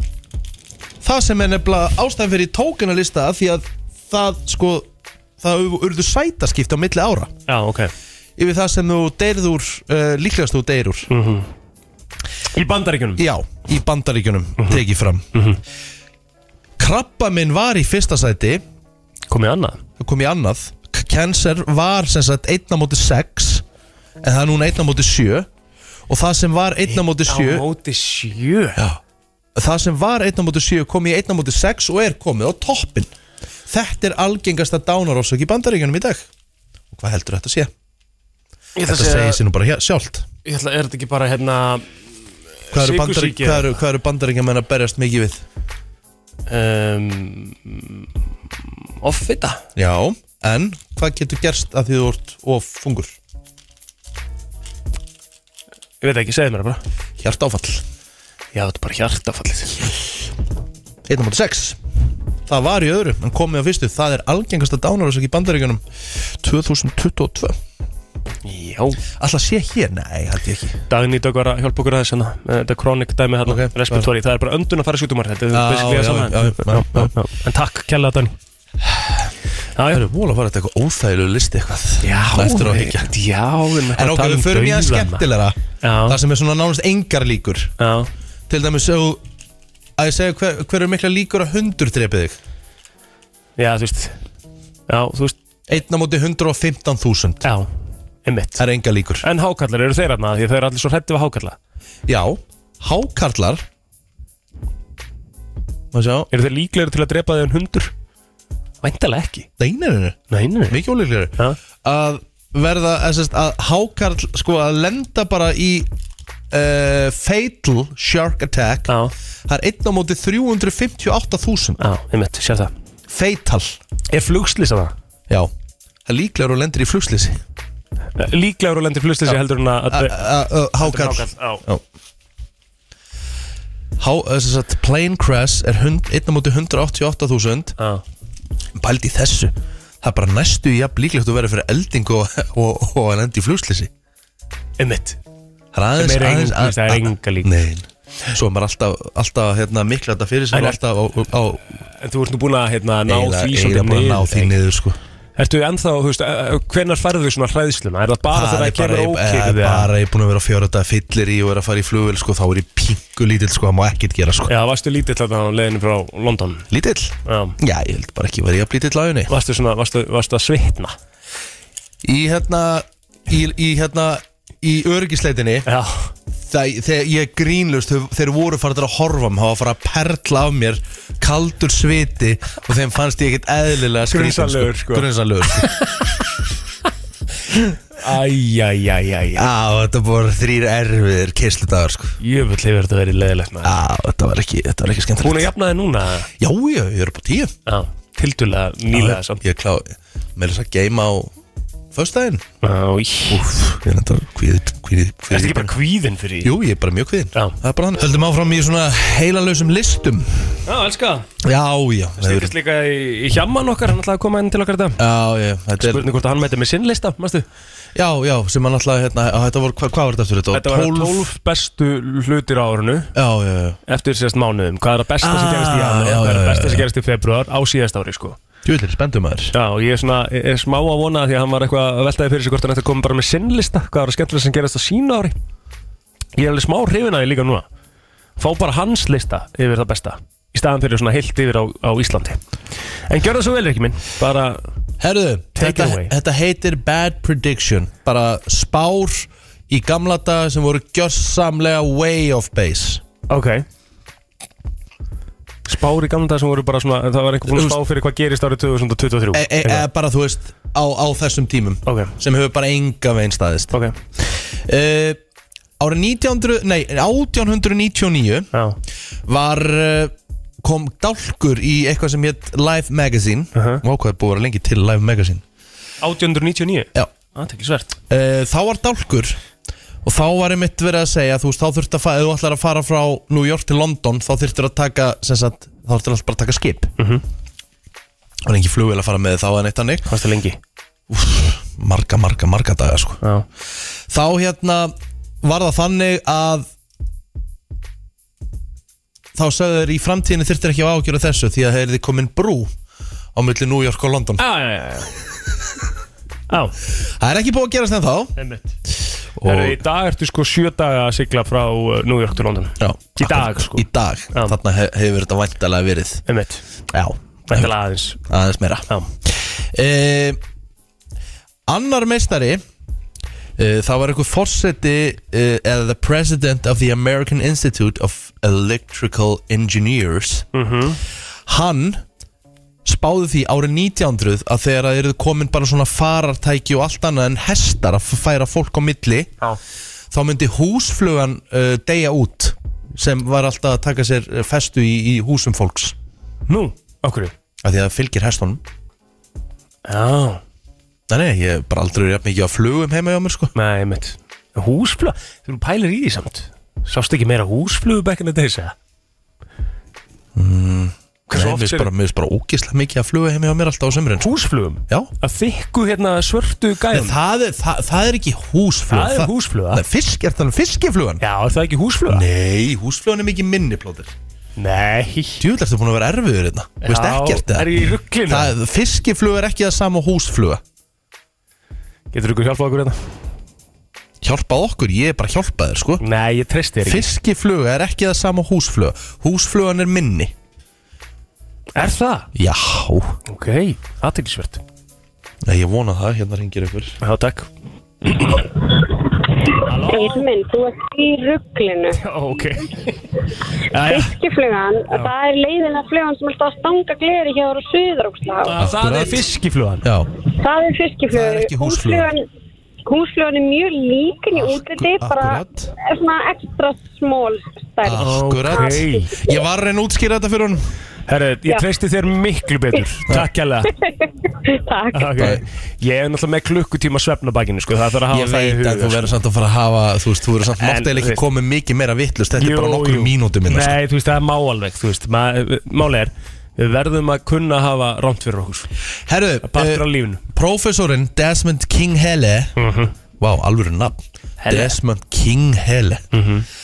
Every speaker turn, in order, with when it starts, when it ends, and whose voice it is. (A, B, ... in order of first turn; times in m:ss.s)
0:01.0-0:04.9 A
0:05.4-0:07.3 A
0:07.5-0:07.9 B
0:08.4-0:11.1 A
0:11.1-0:11.5 B
0:12.5-0:13.2 B
0:13.2-0:15.2 A
0:15.3-0:15.6 B
0:16.8-0:18.6 A
0:19.3-0:19.8 B
0:20.0-0:23.6 A
0:24.2-0:25.5 A
0:26.1-0:27.6 A
0:26.9-0:28.8 B
0:29.6-0:33.1 A
0:33.7-0:36.3 A
0:36.9-0:37.7 A
0:38.8-0:39.4 B
0:38.8-0:40.2 A
0:40.4-0:41.8 B
0:42.7-0:43.8 B
0:42.7-0:45.4 A
0:46.5-0:48.1 B
0:49.0-0:49.6 B
0:49.7-0:53.2 A
0:56.0-0:56.8 B
0:57.2-0:57.8 A
0:58.5-0:59.8 B
1:01.1-1:01.8 A
1:02.4-1:07.6 A
1:08.4-1:09.0 B
1:09.2-1:10.8 A
1:10.9-1:18.3 B
1:13.4-1:14.1 A
1:15.5-1:17.1 A
1:19.8-1:20.0 B
1:19.9-1:23.1 A
1:22.0-1:25.2 B
1:23.9-1:27.7 A
1:25.8-1:26.2 B
1:27.8-1:28.1 B
1:28.5-1:29.2 A
1:30.0-1:32.4 A
1:33.6-1:34.2 B
1:34.9-1:35.4 B
1:35.7-1:37.5 A
1:38.2-1:38.6 B
1:38.6-1:39.2 A
1:39.2-1:41.6 B
1:42.0-1:43.6 A
1:45.9-1:46.3 A
1:46.3-1:47.9 B
1:48.8-1:49.5 B
1:49.6-1:55.9 A
1:50.3-1:50.8 B
1:56.5-1:58.9 A
1:58.9-1:59.1 B
1:59.5-2:01.8 A
2:01.8-2:02.7 B
2:03.1-2:03.8 A
2:04.1-2:04.9 B
2:06.0-2:07.4 A
2:08.2-2:10.2 B
2:09.9-2:11.8 A
2:10.8-2:11.6 B
2:14.0-2:17.7 A
2:18.8-2:23.9 A
2:24.8-2:25.2 B
2:25.7-2:31.8 A
2:26.0-2:27.5 B
2:30.5-2:30.8 B
2:31.9-2:34.5 B
2:33.1-2:35.0 A
2:35.4-2:39.9 B
2:38.3-2:44.5 A
2:44.5-2:46.7 B
2:46.7-2:49.3 A
2:47.2-2:47.6 B
2:49.3-2:50.9 B
2:52.0-2:55.7 A
2:55.6-2:56.1 B
2:56.3-3:05.7 A
3:04.1-3:05.1 B
3:05.6-3:06.0 B
3:08.0-3:09.4 B
3:09.3-3:12.2 A
3:12.2-3:13.8 B
3:13.6-3:15.5 A
3:15.2-3:16.3 B
3:16.4-3:17.5 A
3:17.7-3:19.4 B
3:18.9-3:21.3 A
3:21.9-3:22.4 A
3:22.6-3:23.4 B
3:23.3-3:25.7 A
3:25.3-3:26.5 B
3:26.4-3:30.5 A
3:30.6-3:31.3 B
3:31.4-3:32.5 A
3:32.2-3:35.0 B
3:35.0-3:36.1 A
3:35.8-3:37.4 B
3:37.9-3:41.3 A
3:40.5-3:43.1 B
3:43.1-3:43.8 A
3:43.9-3:48.4 B
3:45.2-3:46.8 A
3:48.6-3:49.5 A
3:49.5-3:55.4 B
3:56.4-3:57.7 B
3:58.4-4:02.4 B
4:03.1-4:04.6 B
4:05.0-4:13.0 A
4:05.6-4:06.1 B
4:13.3-4:13.6 B
4:15.6-4:19.8 B
4:17.5-4:17.8 A
4:19.3-4:25.2 A
4:21.8-4:22.1 B
4:23.7-4:24.0 B
4:25.8-4:28.5 A
4:28.5-4:28.8 B
4:29.2-4:35.4 A
4:33.5-4:33.8 B
4:36.0-4:37.9 B
4:38.1-4:39.4 A
4:40.0-4:46.9 A
4:47.0-4:47.2 B
4:48.4-4:50.1 A
4:50.1-4:50.6 B
4:51.1-4:53.2 A
4:54.1-4:56.7 A
4:59.3-5:02.7 A
5:03.3-5:04.4 A
5:04.4-5:05.2 B
5:06.5-5:06.7 B
5:07.0-5:08.3 A
5:08.4-5:08.8 B
5:09.4-5:09.8 A
5:09.4-5:14.6 B
5:12.8-5:16.2 A
5:16.3-5:16.6 B
5:16.9-5:17.7 A
5:17.5-5:18.2 B
5:18.3-5:20.4 A
5:21.7-5:22.6 A
5:23.6-5:30.4 A
5:30.5-5:31.0 B
5:31.5-5:32.0 A
5:32.8-5:39.3 A
5:40.1-5:46.0 A
5:46.5-5:47.3 B
5:47.6-5:48.6 A
5:49.8-5:50.4 B
5:51.1-5:53.5 A
5:53.5-5:58.7 B
6:00.3-6:04.3 A
6:01.3-6:01.9 B
6:04.2-6:07.2 B
6:06.9-6:11.2 A
6:08.9-6:09.8 B
6:11.2-6:12.2 B
6:12.1-6:14.1 A
6:14.6-6:15.4 B
6:15.4-6:17.7 A
6:16.8-6:18.5 B
6:18.3-6:20.6 A
6:22.1-6:23.0 B
6:24.2-6:26.0 A
6:26.0-6:27.1 B
6:26.8-6:30.3 A
6:31.8-6:32.3 B
6:32.3-6:33.1 A
6:33.3-6:34.6 B
6:35.4-6:37.0 A
6:37.0-6:37.5 B
6:39.6-6:40.2 B
6:39.9-6:42.0 C
6:42.0-6:42.9 B
6:43.7-6:44.1 B
6:43.8-6:48.6 C
6:48.4-6:49.8 B
6:48.6-6:49.2 A
6:49.8-6:50.1 A
6:50.2-6:52.2 C
6:51.1-6:52.1 A
6:52.8-6:59.3 C
6:54.4-6:55.7 A
6:57.8-7:00.6 A
6:57.9-6:59.1 B
7:01.1-7:03.7 B
7:04.0-7:05.2 C
7:04.9-7:09.1 B
7:05.2-7:05.4 A
7:08.1-7:13.8 A
7:10.6-7:11.2 B
7:12.4-7:18.7 B
7:19.0-7:22.5 A
7:19.4-7:20.2 B
7:22.6-7:22.9 B
7:23.2-7:26.0 A
7:24.4-7:24.8 B
7:26.1-7:26.4 B